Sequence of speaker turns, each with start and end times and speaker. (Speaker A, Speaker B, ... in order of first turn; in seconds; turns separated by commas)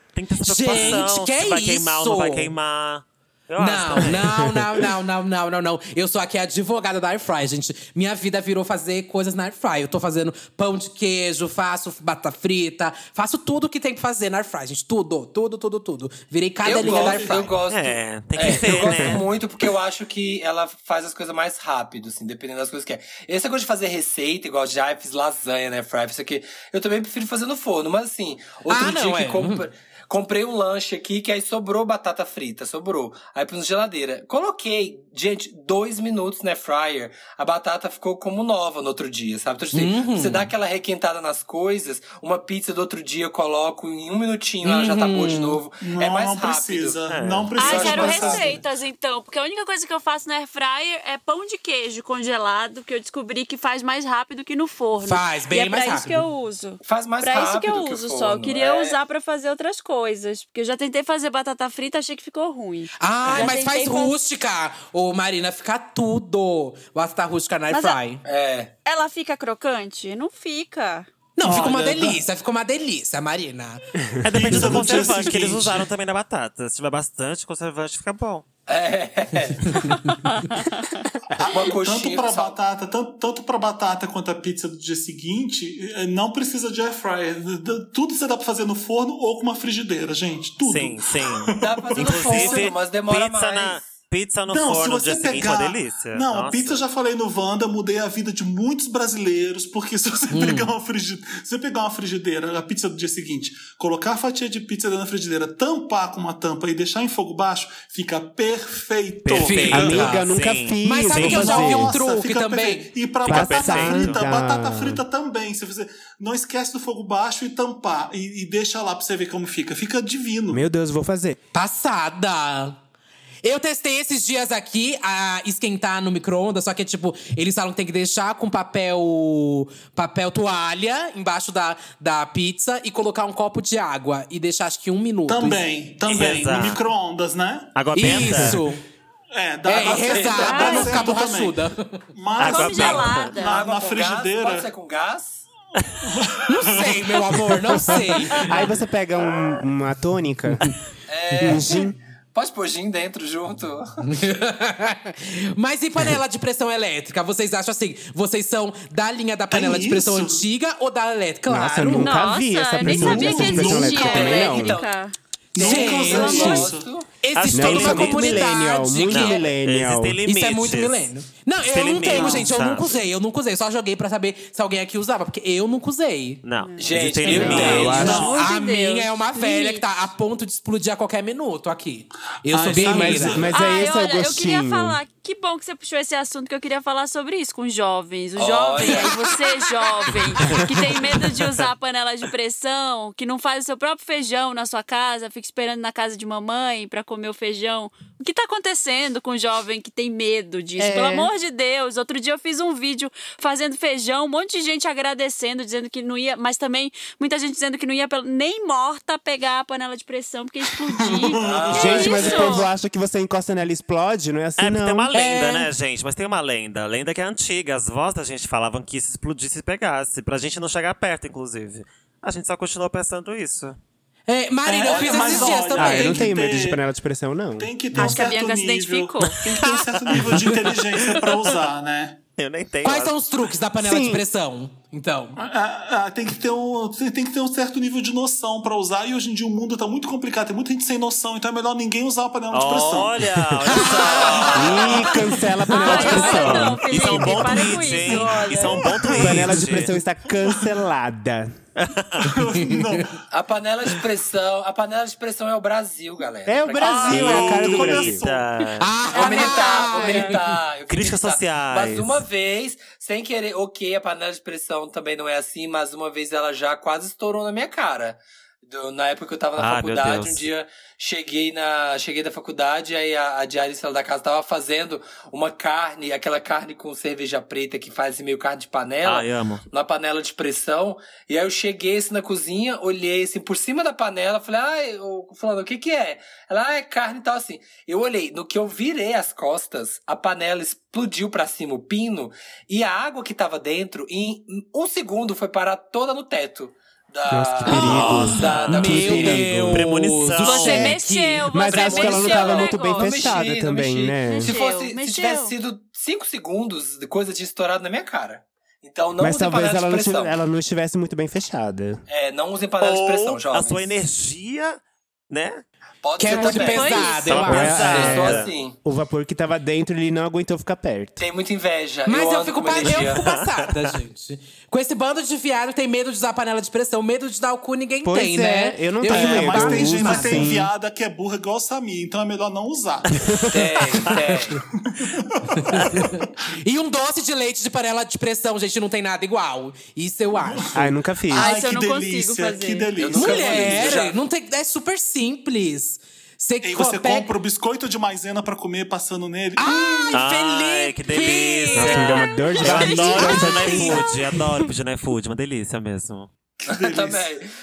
Speaker A: 0.1-4.3, Speaker B: 0.4-2.5, Speaker C: 0.7-1.0, Speaker B: 3.6-17.6, Speaker D: 4.4-4.7, Speaker E: 16.6-47.0, Speaker C: 16.7-17.5, Speaker A: 17.7-19.3, Speaker D: 18.9-19.1, Speaker B: 28.7-29.7, Speaker B: 39.7-40.5, Speaker B: 44.6-45.6, Speaker C: 45.8-48.6, Speaker A: 47.1-47.6, Speaker F: 47.5-64.1, Speaker E: 47.5-48.5, Speaker B: 55.0-56.2, Speaker E: 56.8-59.0, Speaker B: 63.0-68.2, Speaker E: 63.3-63.5, Speaker F: 67.7-68.0, Speaker E: 68.2-68.7, Speaker F: 68.8-71.1, Speaker B: 71.3-73.8, Speaker C: 71.4-72.2, Speaker A: 74.2-78.5, Speaker C: 74.2-75.9, Speaker E: 78.7-80.0, Speaker F: 80.2-81.0, Speaker C: 81.3-92.7, Speaker E: 81.4-82.6, Speaker A: 90.6-96.8, Speaker E: 91.6-93.9, Speaker C: 94.5-110.1, Speaker B: 100.3-100.7, Speaker A: 109.3-111.6, Speaker B: 109.3-110.2, Speaker D: 109.7-111.9, Speaker B: 110.8-112.9, Speaker C: 111.3-120.6, Speaker A: 113.2-114.2, Speaker D: 113.2-115.0, Speaker D: 120.5-121.3, Speaker B: 121.5-122.8, Speaker B: 123.4-135.7, Speaker C: 135.3-137.8, Speaker A: 136.1-136.8, Speaker A: 137.7-138.6, Speaker B: 137.9-138.8, Speaker D: 138.2-138.6, Speaker C: 139.3-141.6, Speaker B: 139.7-142.0, Speaker E: 140.1-140.8, Speaker F: 140.3-141.0, Speaker C: 142.1-144.7, Speaker A: 142.4-143.3, Speaker F: 142.4-143.6, Speaker E: 142.9-145.5, Speaker A: 145.8-146.0, Speaker C: 146.1-147.7, Speaker B: 146.5-148.7, Speaker D: 147.8-150.7, Speaker E: 151.1-154.0, Speaker D: 151.4-151.9, Speaker B: 154.0-162.2, Speaker C: 159.5-160.4, Speaker D: 161.5-164.8, Speaker F: 161.9-165.1, Speaker C: 162.8-164.4, Speaker E: 163.3-164.9, Speaker C: 165.5-166.9, Speaker B: 165.6-169.5, Speaker E: 165.6-167.1, Speaker F: 165.6-166.7, Speaker A: 167.3-168.5, Speaker D: 167.5-170.2, Speaker A: 169.1-171.1, Speaker B: 170.2-176.4, Speaker A: 171.6-173.0, Speaker C: 172.1-172.4, Speaker A: 176.4-178.2, Speaker E: 176.8-178.2, Speaker D: 177.3-178.3, Speaker B: 177.3-183.5, Speaker C: 177.3-178.5, Speaker F: 177.4-179.8, Speaker C: 182.5-183.8, Speaker D: 182.7-185.0, Speaker F: 183.4-212.7, Speaker E: 188.3-189.2, Speaker B: 188.9-189.4, Speaker A: 190.4-191.7, Speaker D: 200.8-201.3, Speaker C: 210.7-212.6, Speaker E: 211.4-212.7, Speaker D: 211.7-215.1, Speaker A: 214.6-223.8, Speaker B: 215.1-215.7, Speaker B: 224.3-226.3, Speaker C: 224.7-226.8, Speaker E: 224.8-225.7, Speaker D: 225.8-228.2, Speaker C: 227.6-232.2, Speaker F: 227.9-229.9, Speaker A: 229.2-230.5, Speaker A: 232.4-233.2, Speaker B: 232.8-235.4, Speaker D: 233.8-234.2, Speaker C: 235.4-243.2, Speaker A: 242.5-249.9, Speaker B: 243.7-244.4, Speaker E: 244.1-244.9, Speaker F: 244.4-248.8, Speaker D: 244.6-247.6, Speaker C: 248.1-249.6, Speaker D: 249.0-251.5, Speaker C: 250.3-250.7, Speaker A: 251.8-252.4, Speaker C: 252.2-253.2, Speaker E: 253.3-258.0, Speaker D: 256.4-258.2, Speaker C: 256.8-258.5, Speaker A: 257.1-258.9, Speaker B: 258.8-260.6, Speaker E: 259.1-299.5, Speaker C: 259.1-259.5, Speaker F: 259.2-260.3, Speaker A: 260.9-262.2, Speaker A: 269.6-270.4, Speaker A: 279.0-279.6, Speaker D: 297.3-299.9, Speaker A: 297.7-301.0, Speaker F: 297.8-298.3, Speaker B: 298.7-301.6, Speaker F: 300.4-303.4, Speaker D: 301.5-304.5, Speaker E: 301.6-310.4, Speaker F: 304.2-305.5, Speaker D: 309.2-312.0, Speaker E: 312.1-313.9, Speaker A: 312.8-315.6, Speaker E: 316.0-318.8, Speaker B: 316.2-318.3, Speaker F: 316.3-317.5, Speaker A: 317.2-318.5, Speaker D: 317.5-321.2, Speaker E: 321.2-323.2, Speaker B: 322.1-330.5, Speaker A: 323.1-323.7, Speaker D: 328.0-330.7, Speaker C: 329.1-333.4, Speaker D: 333.2-333.6, Speaker E: 333.5-334.6, Speaker B: 334.1-334.6, Speaker C: 334.8-336.3, Speaker A: 335.7-336.1, Speaker B: 335.8-340.8, Speaker C: 340.4-344.1, Speaker D: 340.7-341.5, Speaker F: 341.3-342.9, Speaker E: 342.9-344.2, Speaker B: 343.1-347.3, Speaker C: 346.6-349.8, Speaker B: 349.6-354.0, Speaker A: 350.1-356.3, Speaker D: 351.7-354.0, Speaker C: 356.6-357.3, Speaker E: 356.6-357.5